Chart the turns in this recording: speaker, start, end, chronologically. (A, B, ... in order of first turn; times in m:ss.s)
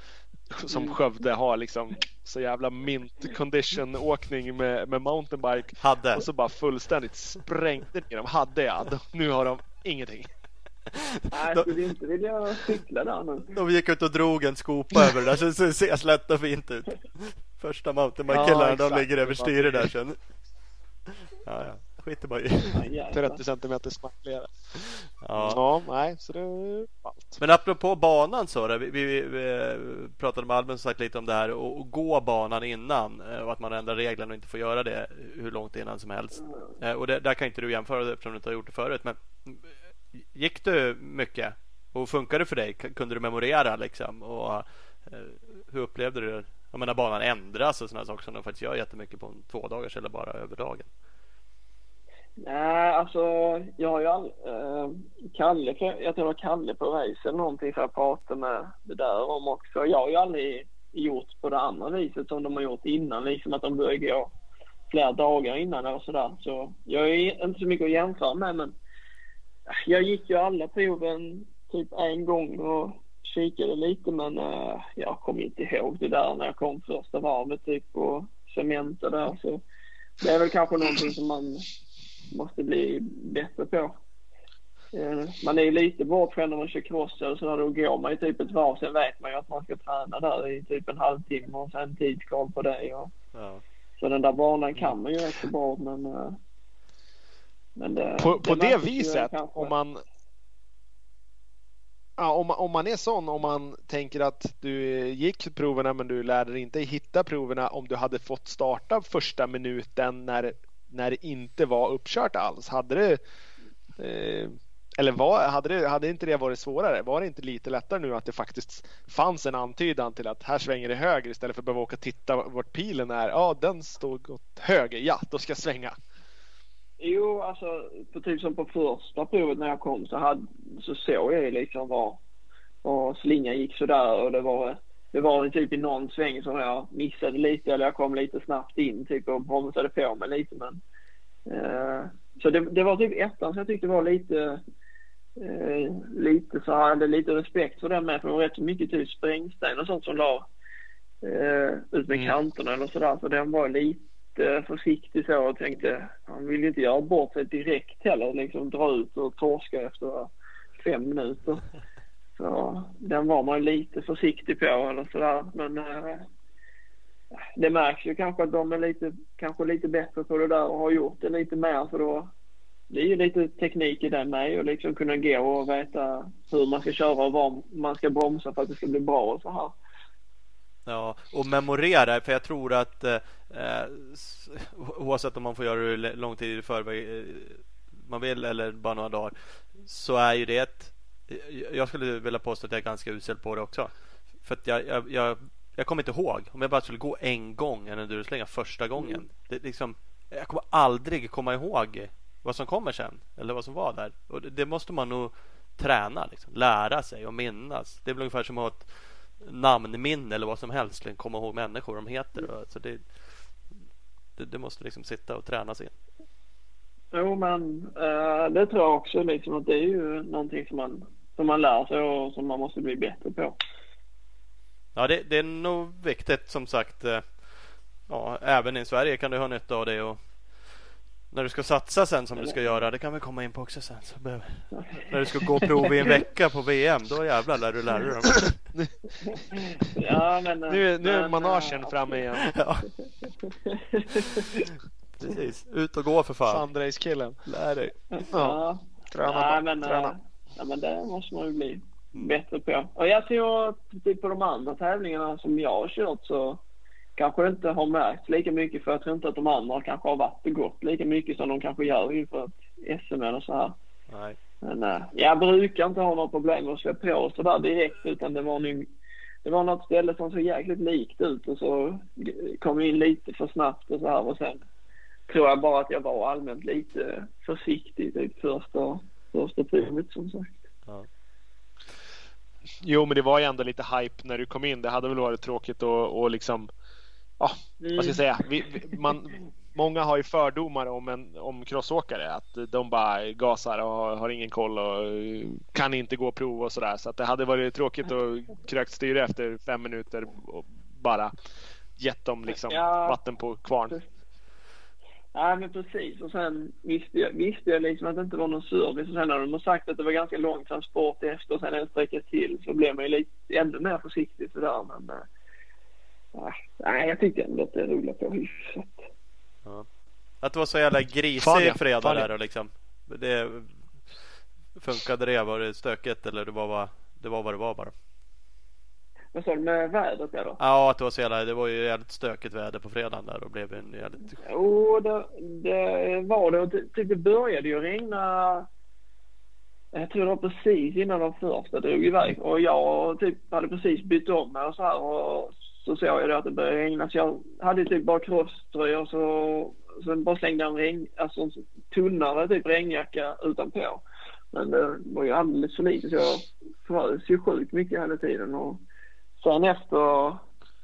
0:00.5-0:10.3 A
0:00.7-0:01.0 B
0:05.8-0:06.3 C
0:10.9-0:11.7 C
0:11.3-0:13.6 B
0:13.6-0:20.2 C
0:18.3-0:19.9 A
0:21.4-0:22.8 C
0:22.7-0:23.4 B
0:23.1-0:24.5 A
0:24.8-0:25.6 C
0:25.4-0:27.4 A
0:27.4-0:39.6 C
0:40.2-0:50.9 C
0:52.4-1:04.3 B
1:04.9-1:08.7 B
1:09.7-1:19.6 B
1:20.2-1:21.6 B
1:22.3-1:24.0 B
1:24.9-1:33.1 B
1:33.3-1:33.6 C
1:34.0-1:36.4 B
1:37.8-1:39.7 B
1:38.2-1:40.0 A
1:42.2-1:53.2 A
1:54.0-2:06.0 A
2:07.0-2:12.2 B
2:12.8-2:20.8 B
2:21.5-2:24.6 B
2:25.4-2:30.5 B
2:31.2-2:41.6 B
2:32.1-2:32.4 A
2:42.4-2:46.3 B
2:47.6-2:52.3 B
2:52.9-2:59.8 B
3:00.9-3:13.9 C
3:14.4-3:33.3 C
3:19.0-3:19.2 B
3:34.4-3:35.9 C
3:37.1-3:43.6 B
3:45.0-3:50.8 C
3:51.3-3:58.6 C
3:54.7-3:56.1 B
3:59.3-4:02.2 B
4:00.7-4:02.5 A
4:02.5-4:02.9 C
4:03.4-4:04.4 B
4:05.2-4:06.6 C
4:06.5-4:07.4 A
4:07.5-4:07.9 C
4:08.1-4:16.6 B
4:08.3-4:08.6 A
4:09.1-4:10.1 A
4:17.2-4:23.8 B
4:24.1-4:24.4 C
4:24.6-4:28.9 B
4:29.4-4:34.6 B
4:35.3-4:40.6 B
4:42.8-4:46.7 A
4:47.4-5:01.3 A
4:47.8-4:48.2 B
5:02.0-5:04.0 A
5:02.5-5:03.2 B
5:05.3-5:15.3 B
5:16.4-5:19.0 B
5:20.4-5:24.2 C
5:21.4-5:22.3 A
5:24.8-5:27.9 C
5:29.3-5:30.6 B
5:30.6-5:34.4 C
5:34.4-5:38.7 B
5:39.9-5:58.8 B
5:59.4-6:00.4 B